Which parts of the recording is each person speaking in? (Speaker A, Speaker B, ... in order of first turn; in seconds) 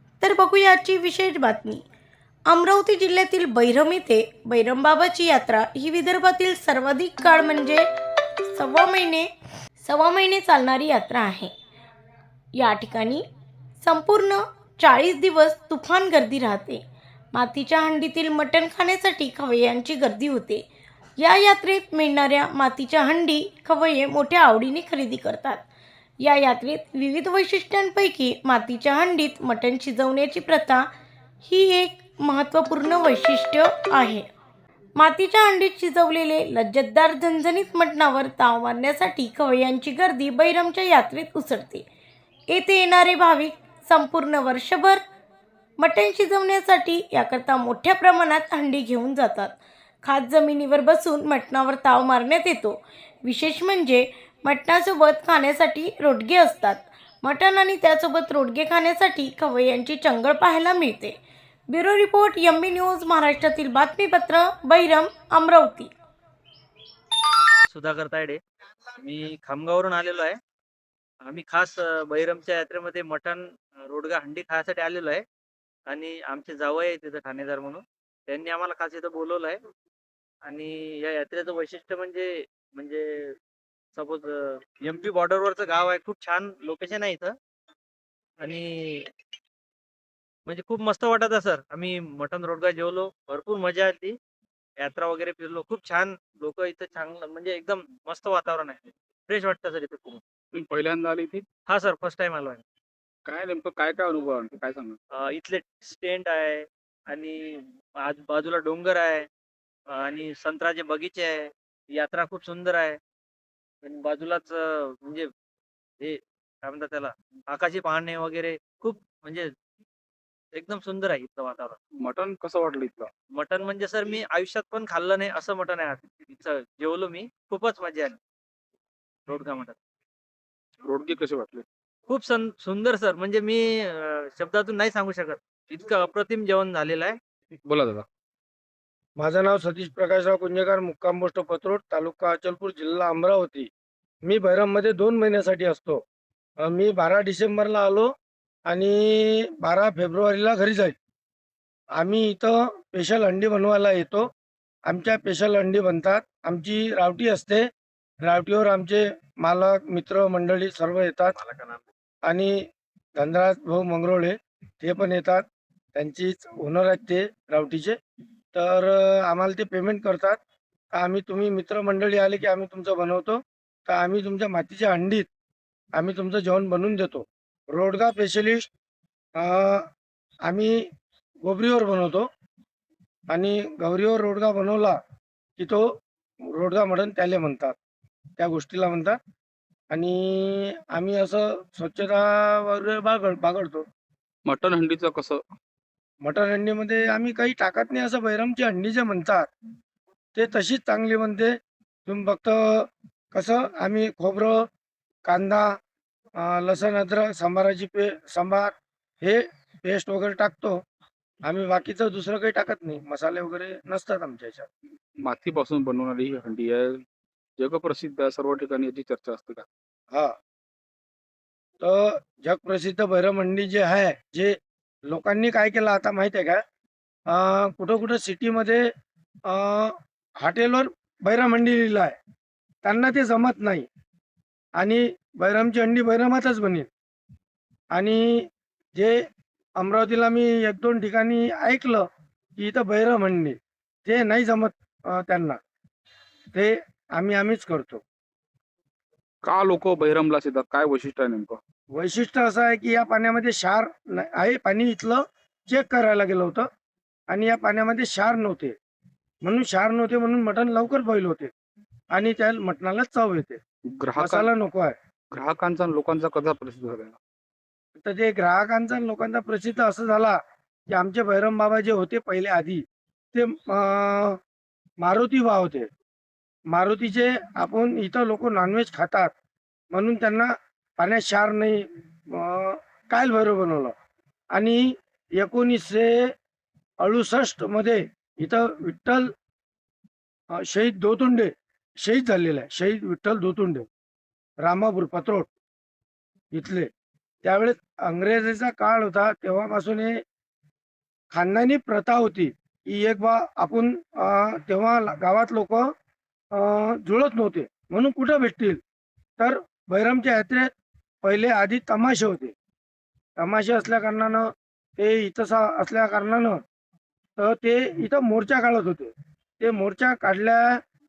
Speaker A: 0.2-1.8, 2.5-7.9, 8.5-11.5, 12.5-13.3, 13.8-20.7, 21.2-25.6, 26.2-30.9, 31.4-34.3, 35.0-41.9, 42.5-45.0, 45.8-61.2, 61.7-65.9
Speaker B: 67.6-68.4, 69.0-70.4, 71.2-75.2, 75.9-79.6, 80.5-83.4, 84.0-87.3, 88.4-89.1, 90.5-94.2, 94.8-100.2, 101.7-102.6, 105.1-109.3, 109.9-113.0, 113.8-115.3, 116.0-119.5, 120.5-121.8, 123.3-128.2, 129.3-129.8, 132.1-137.2
Speaker C: 100.5-101.5, 103.2-105.0, 122.0-123.1, 130.8-131.7, 137.7-138.1, 194.4-195.4, 215.2-217.0, 217.6-219.7, 249.4-251.6, 263.9-264.5, 265.3-267.2
Speaker D: 139.2-143.7, 144.2-146.0, 146.6-148.1, 148.7-151.0, 151.9-154.3, 154.9-157.7, 158.2-161.4, 162.2-168.0, 168.5-170.4, 170.9-175.3, 175.9-178.7, 179.4-179.9, 180.4-180.8, 181.4-182.3, 183.3-185.0, 185.6-185.8, 186.5-187.8, 188.4-189.2, 189.9-193.8, 196.2-199.5, 200.4-201.5, 202.1-204.6, 205.3-205.8, 206.4-210.8, 211.4-214.7, 221.8-224.6, 225.1-226.6, 227.3-228.9, 229.5-232.2, 232.8-233.9, 234.8-236.9, 237.9-239.2, 239.8-242.1, 242.6-245.6, 246.5-248.0, 251.9-256.7, 257.3-258.8, 259.4-261.5, 262.1-263.6, 264.2-264.9, 268.0-270.4, 270.9-274.4, 275.0-275.9, 276.7-279.3, 279.9-283.9, 284.5-284.8, 285.4-286.3, 287.0-289.3, 290.6-293.9, 294.6-295.5, 296.5-296.9, 297.4-300.2, 301.3-305.9, 306.5-308.8, 309.4-310.7, 311.2-312.6, 313.4-316.6, 317.4-320.8